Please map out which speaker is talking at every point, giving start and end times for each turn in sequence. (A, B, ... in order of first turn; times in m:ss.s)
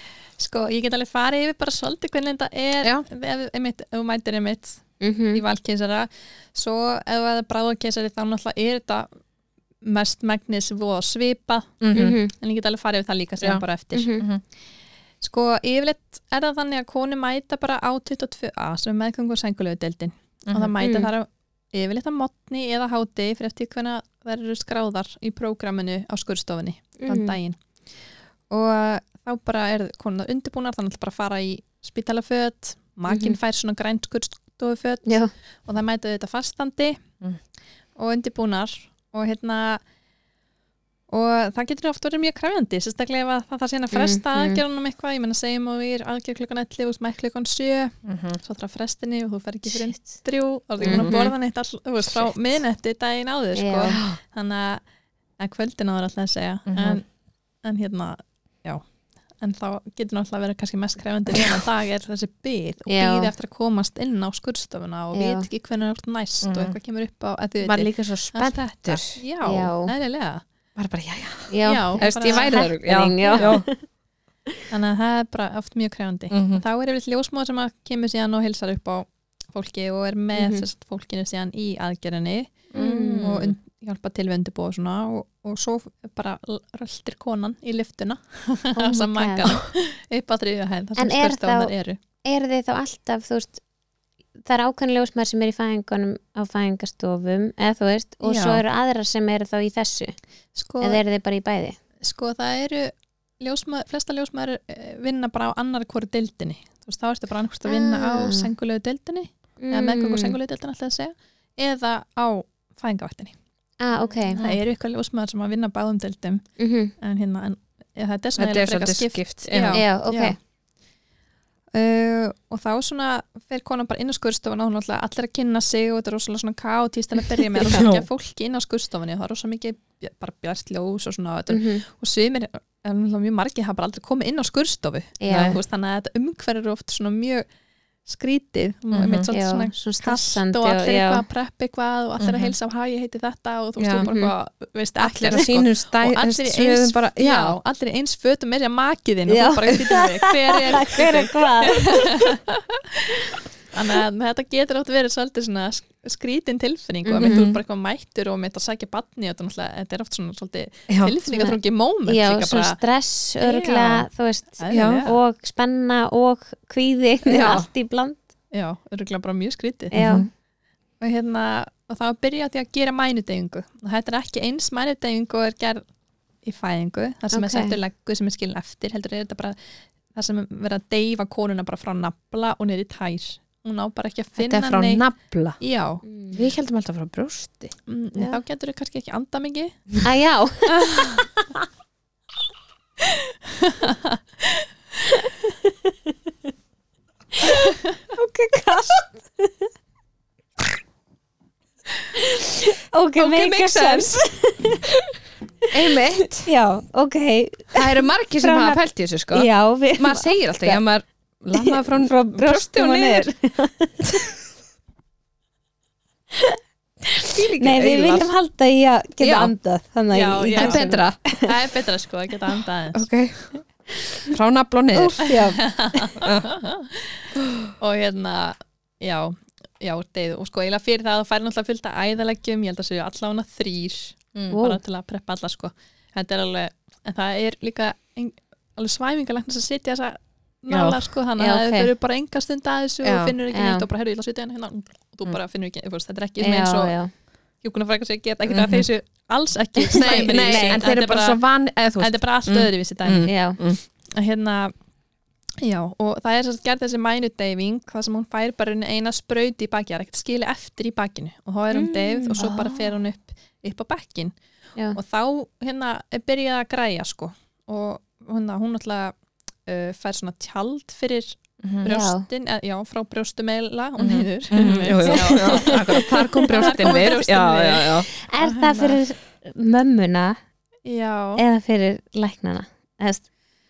0:00.4-0:09.1 A
0:05.0-0:05.4 B
0:09.8-0:14.2 A
0:11.8-0:12.2 C
0:11.9-0:12.3 B
0:13.9-0:14.2 B
0:15.2-0:27.6 A
0:20.5-0:20.7 C
0:20.8-0:21.1 B
0:27.0-0:27.4 B
0:28.5-0:37.0 A
0:33.1-0:33.4 B
0:35.0-0:35.3 B
0:38.0-0:39.8 A
0:41.1-0:54.8 A
0:43.9-0:44.6 B
0:48.0-0:48.4 C
0:49.7-0:50.0 B
0:50.8-0:51.2 C
0:50.8-0:51.3 B
0:53.5-0:54.0 B
0:53.9-0:54.2 C
0:55.4-0:57.0 A
0:56.7-0:57.0 C
0:57.6-0:58.8 A
0:59.4-1:10.4 A
1:02.9-1:03.3 B
1:05.1-1:05.5 B
1:06.4-1:06.8 C
1:07.6-1:09.2 C
1:09.4-1:09.9 B
1:10.8-1:13.7 C
1:11.5-1:13.8 B
1:11.6-1:12.7 A
1:13.2-1:13.6 A
1:14.7-1:22.7 A
1:16.3-1:16.6 C
1:20.3-1:20.6 B
1:22.7-1:23.6 C
1:22.7-1:23.4 B
1:23.2-1:32.0 A
1:28.8-1:29.5 B
1:31.0-1:31.7 B
1:32.2-1:33.6 B
1:34.4-1:40.2 B
1:38.2-1:38.6 A
1:40.5-1:41.0 A
1:40.8-1:41.8 B
1:42.0-1:53.3 A
1:47.6-1:48.5 B
1:49.6-1:50.4 B
1:53.8-1:54.4 B
1:54.1-1:54.6 C
1:54.4-1:56.4 A
1:56.6-1:56.9 B
1:57.0-2:00.4 A
1:58.4-1:59.8 C
1:59.7-2:00.4 B
2:01.7-2:17.4 A
2:07.6-2:08.0 C
2:11.5-2:11.8 B
2:15.2-2:15.6 B
2:15.3-2:15.6 C
2:18.0-2:42.8 A
2:18.9-2:19.3 C
2:19.3-2:21.2 B
2:22.2-2:22.5 C
2:23.8-2:24.1 C
2:24.0-2:24.3 B
2:25.0-2:27.6 C
2:29.3-2:32.2 B
2:37.0-2:37.3 B
2:37.2-2:37.6 C
2:40.9-2:41.2 C
2:41.3-2:48.2 B
2:43.4-2:44.1 A
2:44.6-2:45.2 A
2:44.7-2:45.1 C
2:47.2-2:47.7 C
2:48.5-2:50.0 A
2:49.9-2:50.3 B
2:49.9-2:50.3 C
2:51.0-2:55.8 A
2:56.4-2:59.6 A
2:57.3-2:57.8 B
3:00.1-3:06.0 A
3:04.4-3:05.6 C
3:06.0-3:06.4 B
3:06.3-3:07.7 C
3:07.9-3:10.0 A
3:10.0-3:11.6 B
3:10.7-3:11.3 A
3:13.0-3:14.6 A
3:15.2-3:16.1 B
3:17.4-3:19.6 B
3:22.1-3:24.9 B
3:23.2-3:24.2 C
3:25.7-3:26.5 C
3:25.9-3:30.8 B
3:27.7-3:33.3 C
3:31.5-3:34.2 B
3:37.2-3:41.5 B
3:37.3-3:38.3 C
3:39.2-3:39.5 C
3:40.1-3:43.0 A
3:40.5-3:41.2 C
3:42.9-3:43.6 C
3:44.3-3:45.4 C
3:44.9-3:46.1 B
3:45.2-4:06.9 A
3:46.2-3:46.5 C
3:47.4-3:47.7 C
3:54.5-3:54.8 B
4:00.7-4:01.0 C
4:01.4-4:01.9 B
4:03.0-4:03.3 C
4:03.5-4:03.8 B
4:06.4-4:07.1 B
4:07.6-4:11.4 A
4:08.5-4:08.9 C
4:09.8-4:10.8 B
4:09.9-4:13.8 C
4:12.0-4:13.4 A
4:13.2-4:13.6 B
4:14.1-4:14.7 A
4:15.6-4:24.3 A
4:21.7-4:22.8 B
4:24.9-4:29.1 A
4:29.6-4:39.0 A
4:31.8-4:32.2 B
4:34.0-4:38.1 C
4:35.0-4:37.1 B
4:38.2-4:40.4 B
4:40.8-4:41.4 A
4:41.4-4:43.2 B